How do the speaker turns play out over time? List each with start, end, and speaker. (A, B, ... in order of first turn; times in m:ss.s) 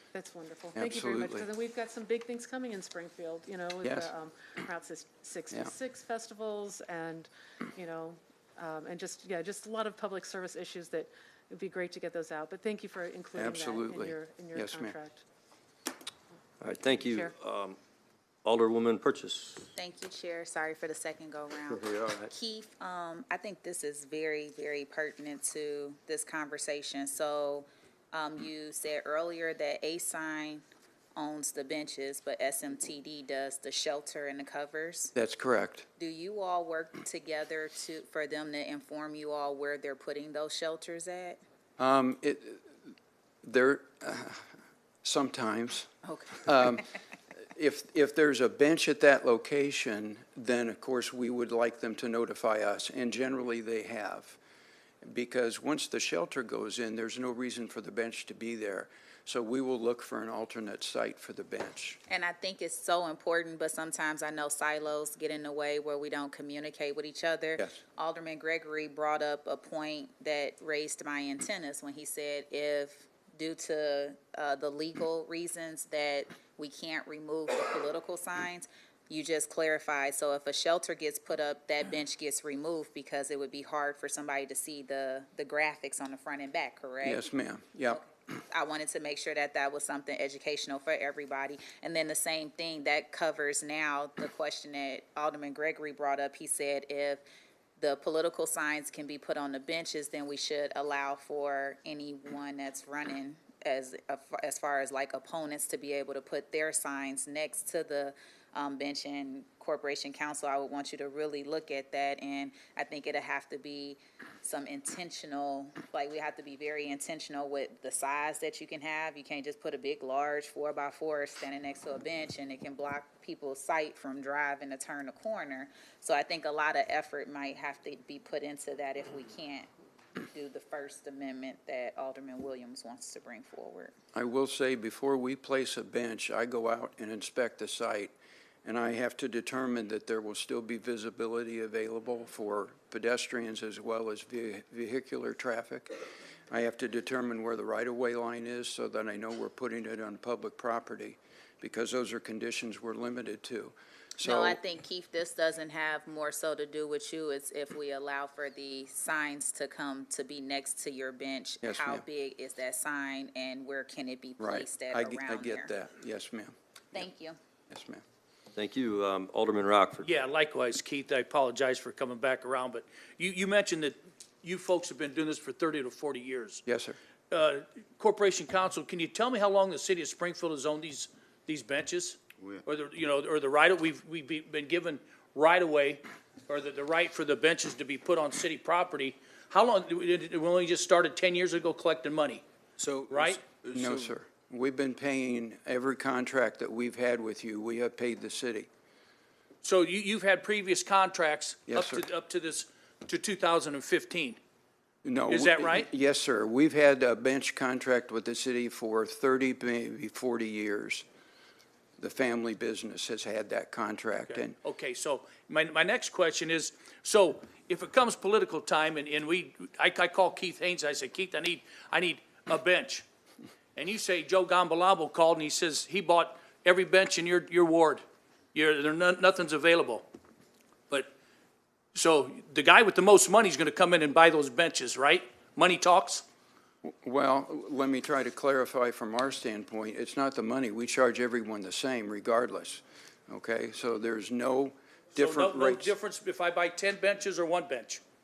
0:00.1-0:15.2 A
0:00.8-0:01.4 B
0:03.8-0:04.1 B
0:13.3-0:15.0 B
0:16.6-0:17.8 C
0:17.0-0:17.3 A
0:18.4-0:19.7 C
0:19.8-0:30.6 D
0:21.7-0:22.3 C
0:31.2-0:35.1 D
0:35.2-0:35.8 B
0:36.0-0:41.4 D
0:41.8-0:42.7 B
0:43.4-0:44.4 B
0:45.0-0:45.9 B
0:46.0-0:46.5 D
0:46.4-0:46.8 B
0:47.5-0:54.4 B
0:55.0-1:02.0 B
1:02.1-1:27.2 D
1:27.0-1:28.0 B
1:27.9-1:37.2 D
1:37.8-2:09.7 D
2:10.3-2:13.9 D
2:14.1-2:18.1 B
2:18.6-2:25.9 B
2:26.5-2:34.6 B
2:34.2-2:45.7 D
2:41.6-2:42.0 B
2:44.4-2:47.0 B
2:46.9-2:47.4 D
2:47.7-2:48.0 B
2:48.5-2:50.1 C
2:50.0-2:56.6 E
2:56.6-2:57.0 B
2:57.3-3:12.4 E
3:12.8-3:14.1 C
3:13.1-3:13.4 E
3:13.7-3:18.7 B
3:19.6-3:24.4 E
3:21.7-3:22.0 B
3:25.0-3:31.0 B
3:25.3-3:25.9 E
3:32.0-3:34.6 B
3:34.3-3:43.0 E
3:43.8-3:48.0 E
3:48.5-3:50.0 E
3:51.9-3:56.2 E
3:56.8-4:05.9 B
4:05.1-4:08.0 E